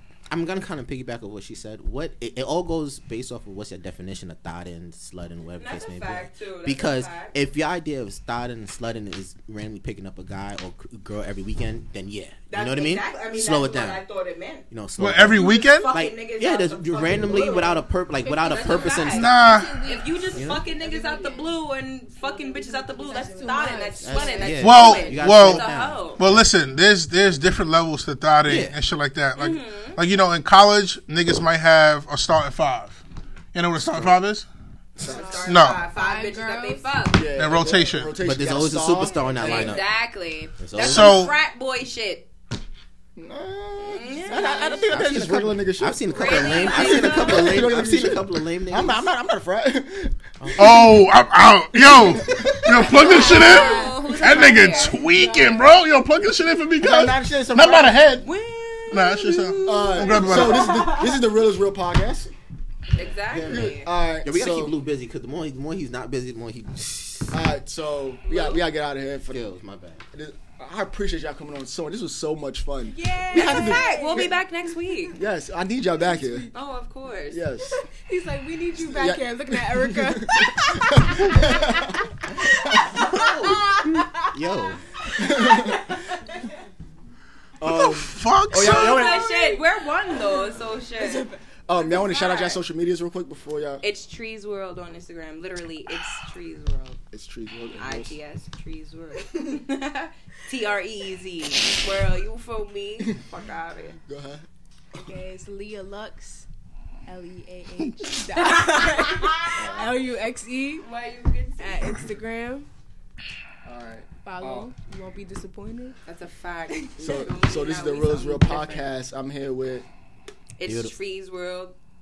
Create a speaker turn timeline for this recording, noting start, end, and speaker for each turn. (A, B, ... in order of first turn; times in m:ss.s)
0:00.3-0:14.0 A
0:05.6-0:07.3 B
0:12.5-0:14.6 B
0:14.7-0:19.3 A
0:15.0-0:15.9 C
0:15.3-0:17.8 B
0:17.4-0:17.6 D
0:18.2-0:21.6 D
0:18.4-0:19.3 B
0:19.1-0:19.8 C
0:19.8-0:26.2 B
0:20.3-0:20.7 A
0:22.2-0:25.2 D
0:24.0-0:26.5 A
0:24.6-0:33.0 C
0:28.5-0:28.8 A
0:29.4-0:30.0 B
0:33.5-0:34.5 C
0:33.8-0:34.2 A
0:35.0-0:35.5 E
0:35.0-0:37.1 D
0:35.0-0:37.3 B
0:35.5-0:35.9 C
0:37.2-0:39.7 E
0:37.4-0:38.2 C
0:38.2-0:40.0 A
0:39.1-0:39.7 D
0:39.4-0:42.3 B
0:40.6-0:41.3 A
0:40.8-0:41.3 C
0:43.2-0:50.8 E
0:43.8-0:44.9 B
0:44.1-0:44.8 D
0:44.9-0:49.1 A
0:46.1-0:47.7 B
0:50.4-0:50.9 A
0:50.6-0:58.3 C
0:51.8-0:53.0 E
0:52.8-0:55.1 B
0:52.9-0:55.9 D
0:56.8-0:58.0 E
0:58.2-1:01.2 B
0:58.9-1:00.9 C
0:59.7-1:02.3 E
1:02.9-1:03.9 B
1:03.3-1:07.4 A
1:03.4-1:04.8 E
1:07.3-1:09.5 E
1:08.3-1:08.6 B
1:09.3-1:10.0 A
1:10.1-1:14.4 E
1:12.9-1:14.3 D
1:13.3-1:15.2 B
1:15.2-1:16.5 E
1:16.1-1:16.5 D
1:16.5-1:17.4 B
1:17.3-1:17.8 E
1:18.1-1:24.3 D
1:18.8-1:22.0 E
1:24.3-1:24.8 A
1:25.1-1:26.0 D
1:25.2-1:25.8 E
1:27.6-1:29.3 E
1:27.6-1:29.0 C
1:28.6-1:31.3 B
1:29.0-1:29.5 D
1:31.0-1:31.4 D
1:31.7-1:33.8 E
1:31.9-1:32.6 B
1:33.8-1:37.0 B
1:37.1-1:38.2 E
1:37.8-1:44.0 B
1:44.1-1:44.5 E
1:44.9-1:46.5 D
1:47.1-1:50.8 D
1:48.4-1:49.2 B
1:49.6-1:49.9 E
1:50.8-1:52.0 B
1:51.6-1:52.7 D
1:53.6-1:54.7 E
1:54.2-1:56.0 D
1:56.0-1:58.9 B
1:57.0-1:59.9 E
2:00.6-2:01.7 B
2:00.6-2:00.9 A